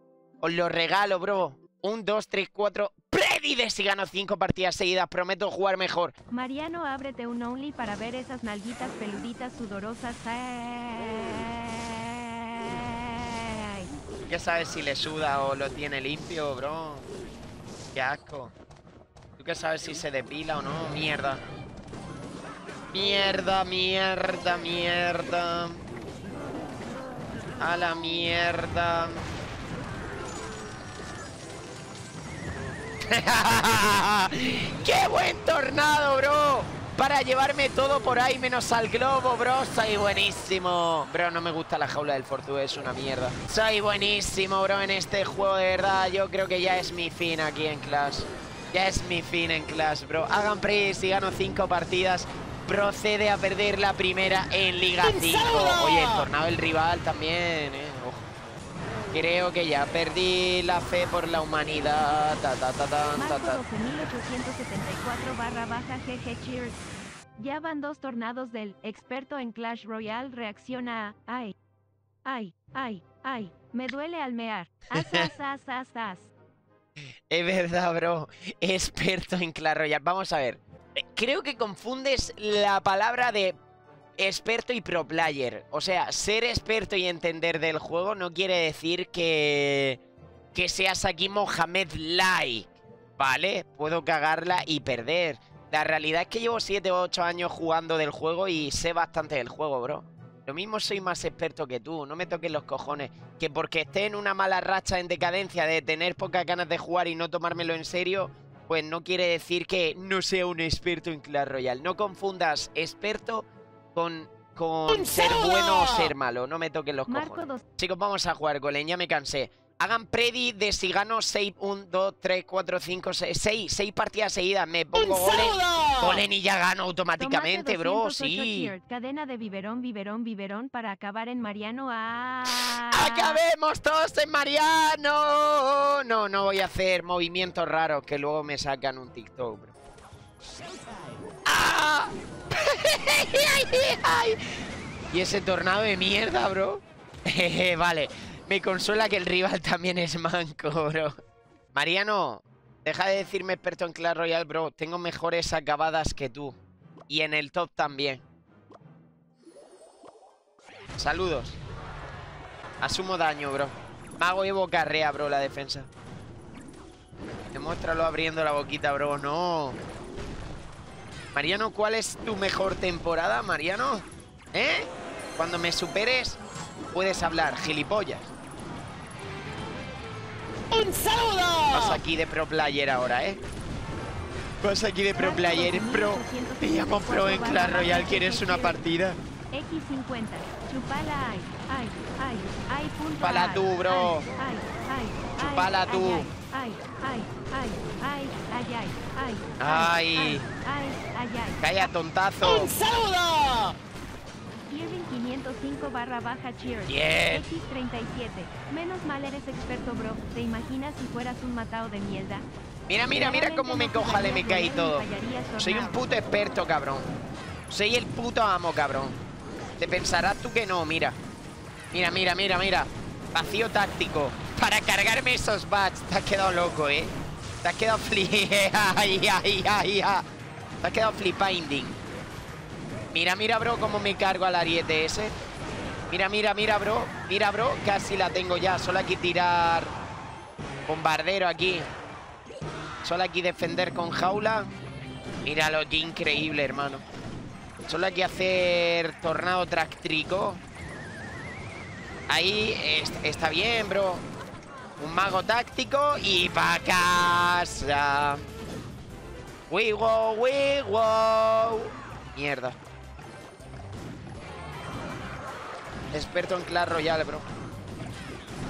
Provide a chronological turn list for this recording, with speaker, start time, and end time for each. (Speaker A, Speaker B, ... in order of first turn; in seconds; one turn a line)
Speaker A: 0.4-6.1
Speaker B: 6.3-13.9
Speaker A: 14.3-17.1
Speaker A: 17.9-18.5
Speaker A: 19.4-21.4
Speaker A: 22.9-25.8
Speaker A: 27.6-29.3
Speaker A: 33.1-58.3
Speaker A: 59.1-63.6
Speaker B: 63.2-66.8
Speaker B: 67.4-71.5
Speaker B: 72.2-76.3
Speaker A: 77.3-83.5
Speaker A: 84.2-90.0
Speaker A: 90.5-128.7
Speaker B: 117.1-117.6
Speaker B: 127.2-133.4
Speaker A: 132.5-139.7
Speaker A: 141.5-144.4
Speaker A: 145.1-151.1
Speaker A: 151.7-156.6
Speaker A: 157.1-158.2
Speaker A: 161.0-161.6
Speaker A: 162.8-165.9
Speaker A: 167.5-169.8
Speaker A: 171.3-176.4
Speaker A: 176.9-178.3
Speaker A: 181.7-183.4
Speaker A: 184.6-189.2
Speaker B: 185.2-188.8
Speaker B: 189.5-201.9
Speaker A: 193.2-194.3
Speaker A: 195.4-196.3
Speaker A: 199.6-200.5
Speaker A: 201.6-202.8
Speaker B: 204.7-212.5
Speaker A: 206.9-207.5
Speaker A: 212.9-215.1
Speaker B: 213.0-216.0
Speaker A: 215.6-217.1
Speaker A: 217.7-219.2
Speaker A: 219.8-221.2
Speaker A: 221.9-227.1
Speaker A: 227.6-230.3
Speaker A: 230.8-232.0
Speaker A: 233.1-235.3
Speaker A: 236.1-239.9
Speaker A: 240.9-241.9
Speaker A: 243.0-244.7
Speaker A: 245.4-247.1
Speaker A: 247.9-250.6
Speaker A: 252.3-254.2
Speaker A: 255.0-258.4
Speaker A: 259.7-262.8
Speaker A: 266.1-267.5